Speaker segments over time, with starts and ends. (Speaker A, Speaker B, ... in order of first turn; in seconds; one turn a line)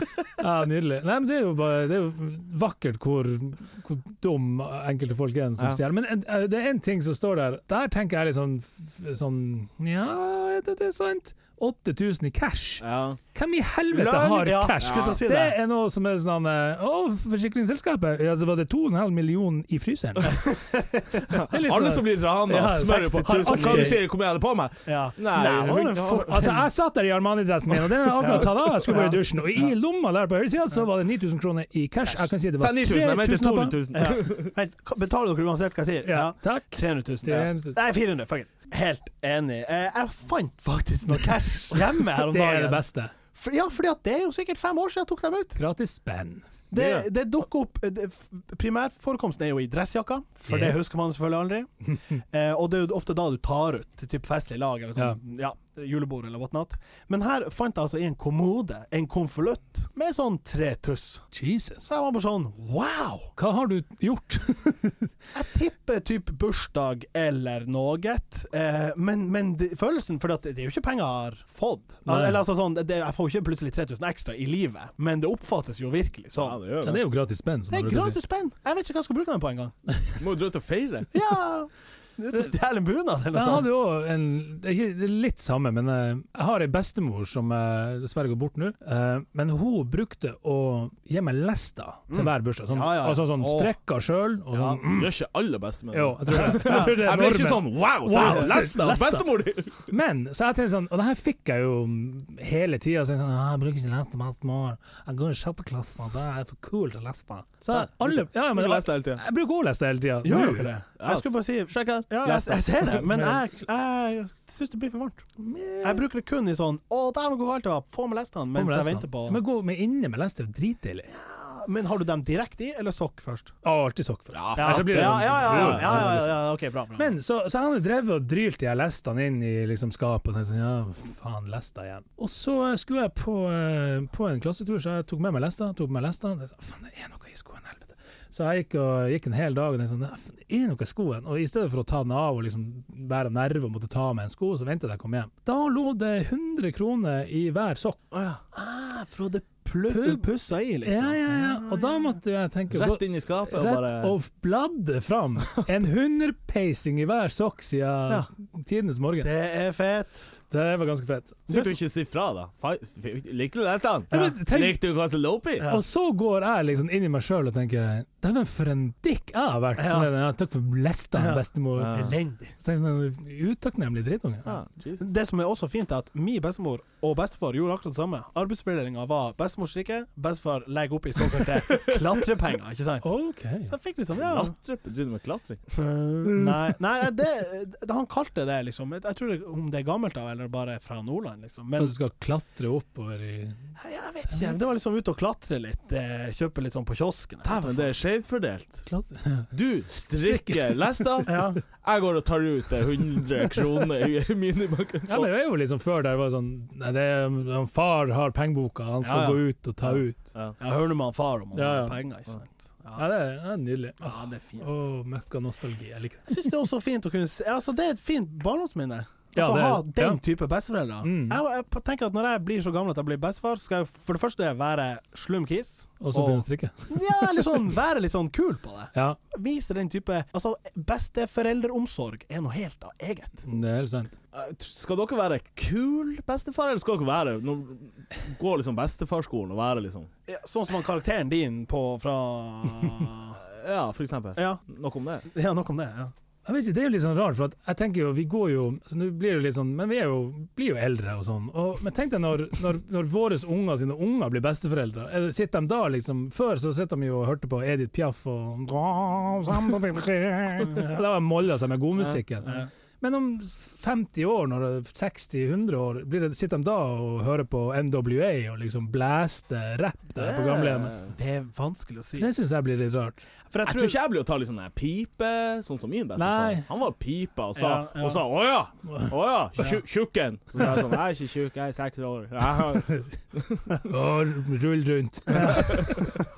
Speaker A: 0.4-20.5
Speaker B: 12.8-13.2
Speaker C: 13.9-15.6
Speaker B: 14.8-15.2
Speaker A: 21.5-23.9
Speaker B: 21.6-26.5
Speaker C: 22.8-24.1
Speaker C: 24.9-26.6
Speaker A: 26.3-33.8
Speaker C: 28.1-29.7
Speaker B: 32.6-34.5
Speaker C: 33.9-45.6
Speaker A: 36.0-37.8
Speaker A: 42.0-43.1
Speaker A: 45.6-46.6
Speaker C: 46.7-51.7
Speaker B: 46.7-47.1
Speaker A: 50.5-50.9
Speaker C: 52.3-61.3
Speaker A: 61.3-61.9
Speaker C: 61.9-63.3
Speaker A: 63.4-65.1
Speaker C: 65.3-76.6
Speaker A: 72.1-72.4
Speaker B: 76.3-77.0
Speaker A: 76.8-78.2
Speaker C: 77.7-79.8
Speaker B: 80.2-81.1
Speaker C: 81.1-83.7
Speaker A: 83.3-95.1
Speaker C: 92.1-93.8
Speaker C: 94.5-94.8
Speaker B: 94.9-99.9
Speaker A: 95.9-99.2
Speaker C: 96.4-97.0
Speaker C: 98.2-99.2
Speaker A: 99.9-110.7
Speaker B: 107.7-109.2
Speaker C: 110.2-115.2
Speaker B: 111.0-113.1
Speaker A: 115.4-116.1
Speaker C: 115.8-119.4
Speaker A: 118.5-121.1
Speaker C: 121.1-123.6
Speaker A: 123.6-148.0
Speaker B: 124.3-126.3
Speaker C: 124.5-127.1
Speaker B: 148.1-148.4
Speaker C: 148.5-152.2
Speaker A: 149.9-150.3
Speaker A: 150.8-159.3
Speaker B: 152.7-154.1
Speaker C: 159.2-160.1
Speaker A: 160.5-161.5
Speaker B: 161.5-165.7
Speaker A: 164.1-164.8
Speaker A: 165.7-174.6
Speaker C: 169.8-170.1
Speaker C: 171.1-172.6
Speaker B: 171.8-172.1
Speaker B: 174.5-175.1
Speaker C: 175.0-184.6
Speaker A: 183.0-183.7
Speaker B: 184.1-185.6
Speaker C: 185.8-191.9
Speaker A: 191.8-193.7
Speaker C: 193.8-197.9
Speaker A: 194.3-194.6
Speaker B: 197.4-198.9
Speaker A: 198.9-199.5
Speaker B: 199.5-205.3
Speaker A: 200.2-201.5
Speaker C: 201.2-201.6
Speaker A: 205.1-210.3
Speaker C: 209.0-210.0
Speaker C: 210.6-213.0
Speaker A: 211.5-212.1
Speaker A: 213.0-216.5
Speaker C: 214.0-214.7
Speaker C: 216.3-233.4
Speaker A: 219.3-220.2
Speaker A: 221.0-221.4
Speaker A: 226.0-227.2
Speaker A: 228.9-229.2
Speaker A: 233.5-234.2
Speaker B: 234.3-240.1
Speaker C: 240.3-243.4
Speaker B: 243.4-245.3
Speaker C: 244.4-244.6
Speaker C: 245.3-246.1
Speaker A: 246.5-270.9
Speaker B: 270.2-271.1
Speaker C: 271.1-272.3
Speaker A: 272.2-273.2
Speaker C: 273.5-274.0
Speaker B: 273.6-283.5
Speaker A: 276.1-276.7
Speaker C: 277.6-278.2
Speaker A: 283.9-286.1